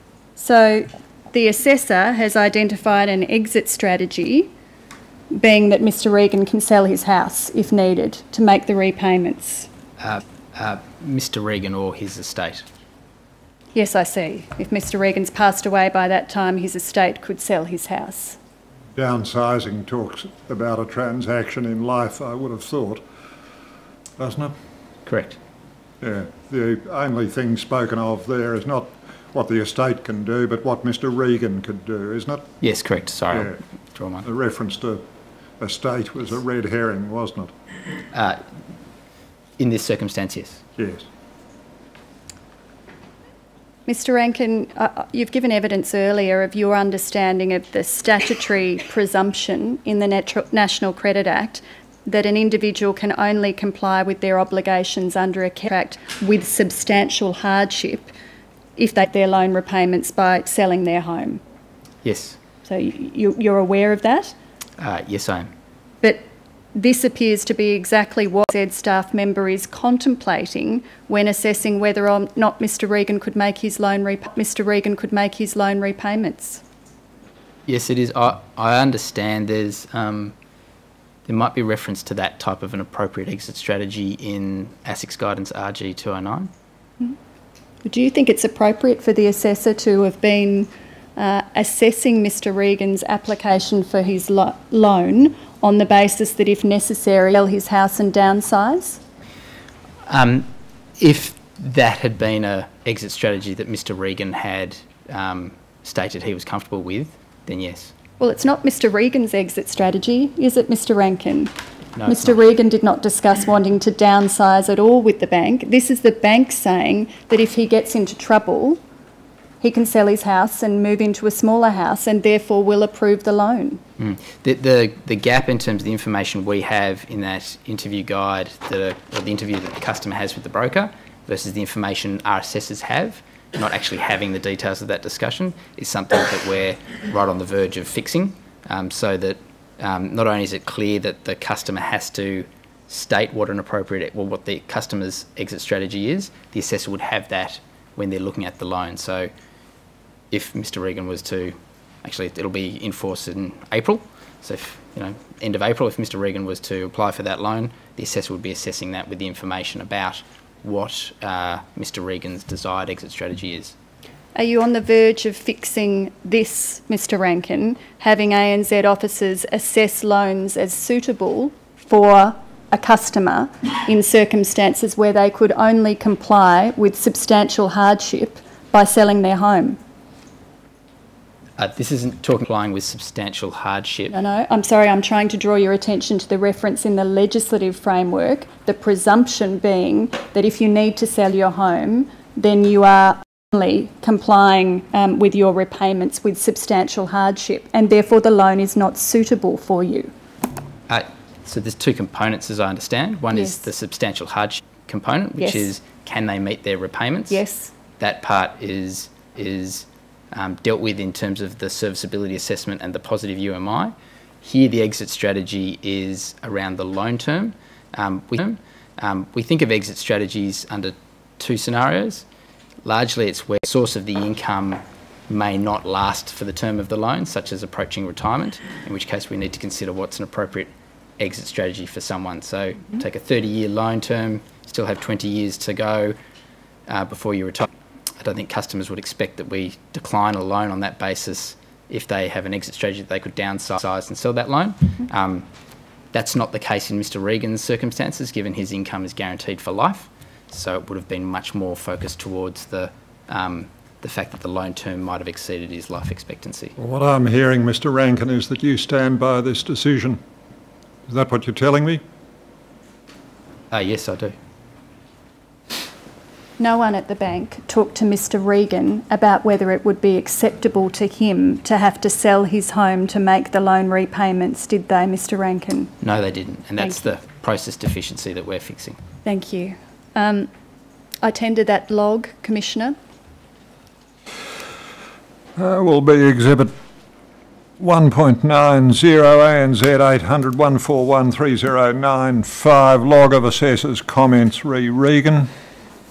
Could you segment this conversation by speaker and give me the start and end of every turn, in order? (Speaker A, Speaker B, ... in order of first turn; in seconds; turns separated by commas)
Speaker A: 0.4-4.5, Speaker A: 5.3-9.7, Speaker B: 10.0-12.7, Speaker A: 13.7-18.4, Speaker C: 18.9-23.0, Speaker C: 24.2-24.5, Speaker B: 25.1-25.4, Speaker C: 26.0-32.5, Speaker B: 32.6-34.2, Speaker C: 33.3-33.6, Speaker C: 34.2-35.0, Speaker C: 35.6-37.5, Speaker B: 38.1-38.4, Speaker B: 39.6-40.6, Speaker C: 40.8-41.0, Speaker A: 43.9-58.1, Speaker A: 58.8-61.4, Speaker B: 62.0-62.4, Speaker A: 62.6-64.3, Speaker B: 64.8-65.5, Speaker A: 66.0-76.6, Speaker B: 77.7-80.3, Speaker B: 81.2-86.5, Speaker A: 87.8-99.0, Speaker B: 100.1-107.9, Speaker A: 108.2-111.5, Speaker B: 112.0-112.4, Speaker A: 112.0-118.8, Speaker A: 119.6-123.8, Speaker B: 124.0-149.3, Speaker B: 150.3-163.7, Speaker A: 164.3-179.8, Speaker B: 181.6-184.1, Speaker A: 184.1-200.1, Speaker B: 200.9-207.4, Speaker A: 203.3-203.7, Speaker A: 205.4-205.7, Speaker A: 207.3-207.7, Speaker B: 208.0-222.2, Speaker B: 222.8-236.2, Speaker B: 236.9-245.5, Speaker B: 246.1-256.7, Speaker C: 256.8-260.2, Speaker C: 261.1-262.0, Speaker B: 263.7-264.3, Speaker A: 266.6-275.9, Speaker B: 276.0-279.0, Speaker A: 276.8-277.0, Speaker A: 279.2-280.5, Speaker A: 281.2-282.9, Speaker C: 285.6-286.7, Speaker C: 287.8-295.5